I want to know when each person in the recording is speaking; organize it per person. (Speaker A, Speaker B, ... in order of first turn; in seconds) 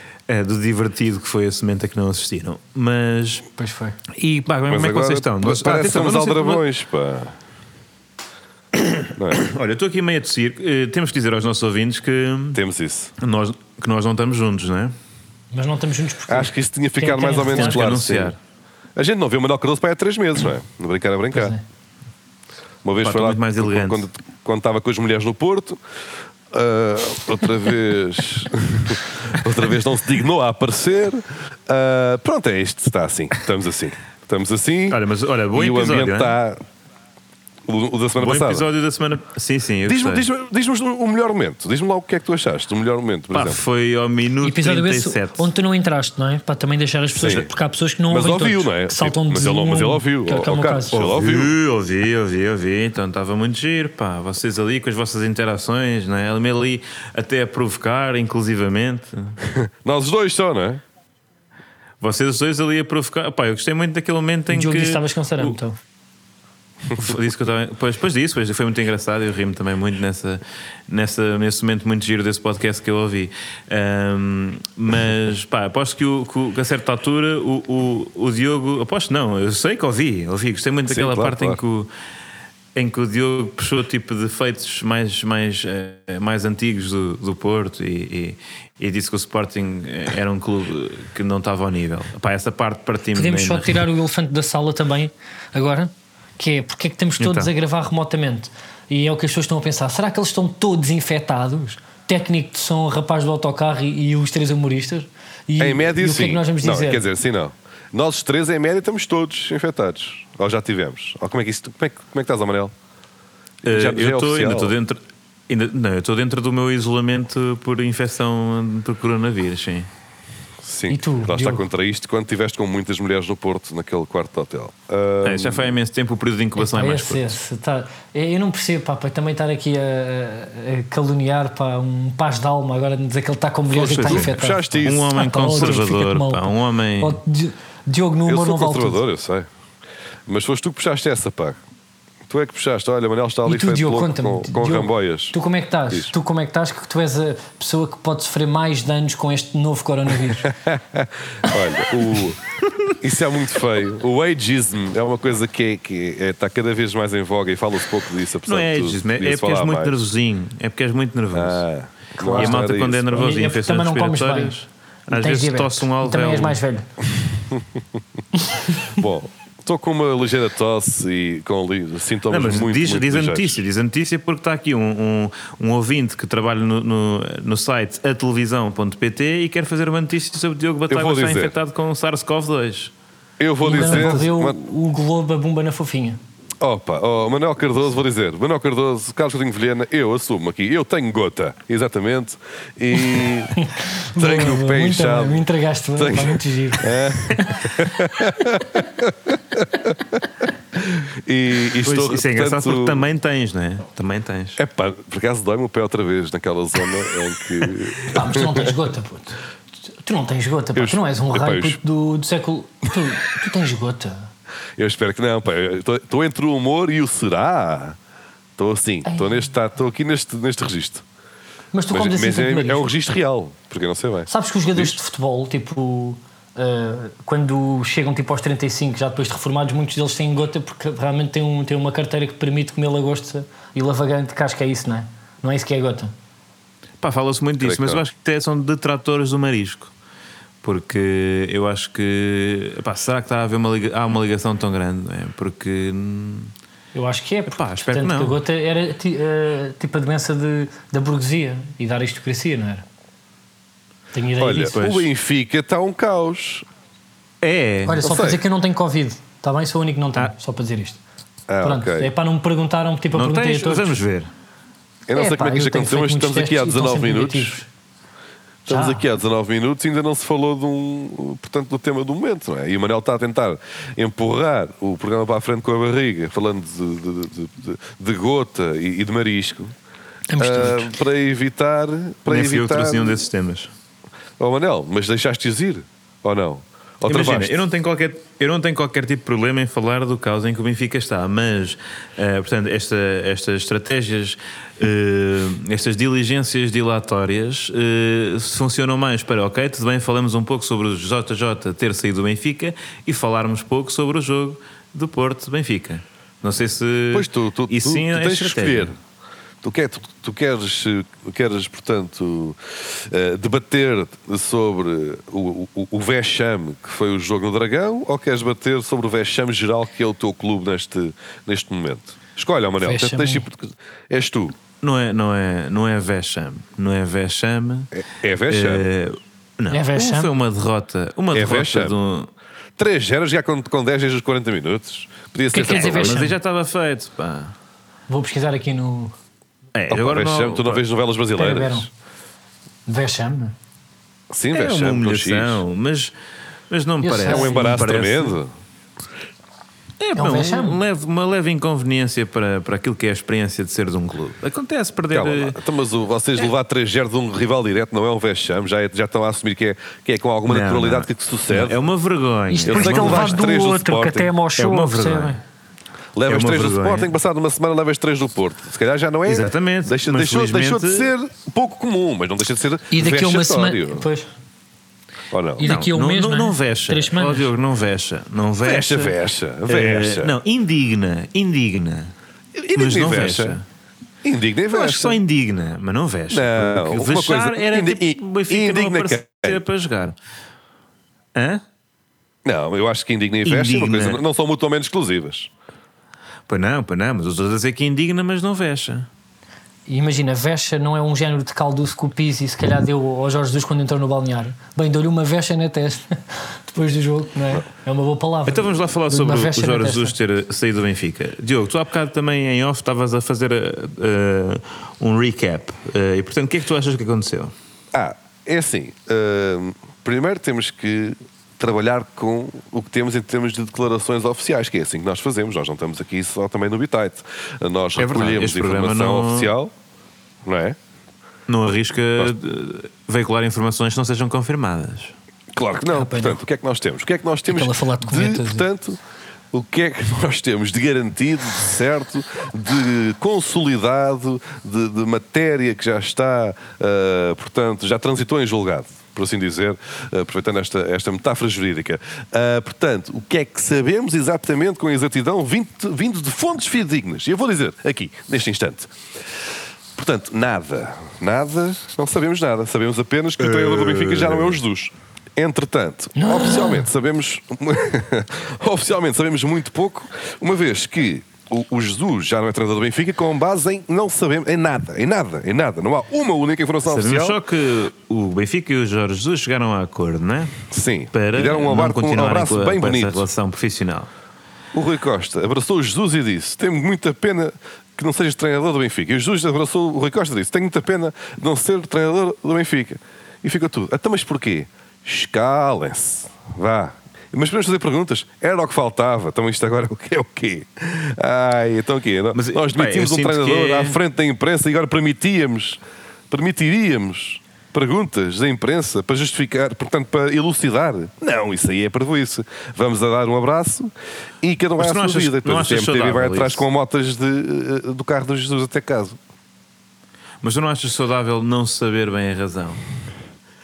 Speaker A: 0.3-3.4, 4.2-6.6, 8.7-12.6, 13.2-14.9, 17.4-18.4, 23.0-24.1, 34.9-36.3, 38.2-40.3, 43.3-45.5, 50.9-59.4, 62.0-65.5, 66.9-81.9, 82.7-93.8, 97.2-97.5, 113.6-119.9, 125.2-127.4, 134.0-134.3, 134.8-137.2, 158.4-161.6, 162.3-166.6, 172.3-182.9, 183.8-184.2, 201.8-204.6, 237.0-239.9, 240.6-246.5, 247.5-248.4, 254.7-255.1, 257.4-258.0, 263.1-264.3, 282.3-283.7, 287.1-308.9, 324.8-327.9, 328.5-332.3, 335.6-337.5, 339.7-340.8, 344.5-346.1, 346.7-348.4, 350.0-355.6, 360.5-363.4, 364.6-365.4, 366.2-367.1, 369.2-371.1, 375.6-382.1, 382.7-383.6, 384.7-390.1, 391.3-391.6, 393.4-394.2, 396.5-399.1, 408.5-417.5, 428.0-429.5, 431.5-435.1, 463.4-464.5, 476.9-480.5, 481.1-484.1, 502.3-504.0, 514.8-516.6, 520.4-522.8
Speaker B: 3.6-4.0, 15.5-17.9, 21.3-21.6, 44.4-51.0, 64.5-65.8, 93.1-107.0, 120.9-121.6, 126.6-139.0, 143.4-150.5, 162.2-164.5, 165.1-166.8, 183.6-186.2, 193.1-197.7, 208.1-209.4, 210.0-214.3, 219.0-219.3, 221.7-222.9, 224.3-236.1, 246.9-252.8, 254.1-254.7, 257.9-261.0, 261.6-264.0, 265.1-267.7, 268.7-269.0, 280.3-280.9, 322.8-323.4, 329.7-330.3, 335.5-336.4, 338.1-339.1, 341.4-341.9, 342.9-343.5, 347.0-347.8, 350.1-350.8, 362.5-365.4, 372.9-374.3, 375.6-377.5, 399.9-410.1, 435.9-436.4, 437.5-438.7, 466.1-466.9
Speaker C: 4.7-7.3, 9.1-9.5, 12.5-13.1, 16.3-18.3, 18.9-21.6, 22.8-25.8, 26.5-35.0, 35.5-36.6, 37.7-38.7, 39.8-43.6, 47.1-47.5, 48.1-51.5, 59.4-60.8, 80.9-81.6, 105.6-112.7, 113.6-114.7, 120.6-125.7, 133.7-135.8, 138.2-139.5, 140.3-141.6, 142.3-145.3, 150.4-152.4, 153.0-159.9, 161.3-163.1, 167.3-167.8, 168.9-173.6, 180.9-181.5, 183.4-184.6, 186.6-193.6, 194.2-200.2, 200.8-203.0, 204.6-208.7, 210.7-211.8, 214.8-218.0, 218.6-221.0, 221.9-225.0, 237.6-238.0, 254.4-256.6, 258.0-258.4, 261.5-262.1, 265.1-267.6, 268.6-279.7, 280.4-283.2, 284.4-287.5, 307.1-308.9, 309.6-324.6, 327.9-328.8, 331.3-331.9, 332.8-336.2, 339.9-341.9, 344.3-345.6, 347.2-348.5, 355.1-361.8, 362.7-364.3, 366.1-374.0, 375.3-375.6, 378.6-380.3, 382.6-383.6, 384.2-385.2, 386.3-389.6, 392.4-395.5, 417.9-429.7, 430.4-430.8, 435.5-439.0, 439.5-458.9, 459.9-477.4, 480.7-483.2, 484.7-513.9, 514.4-519.2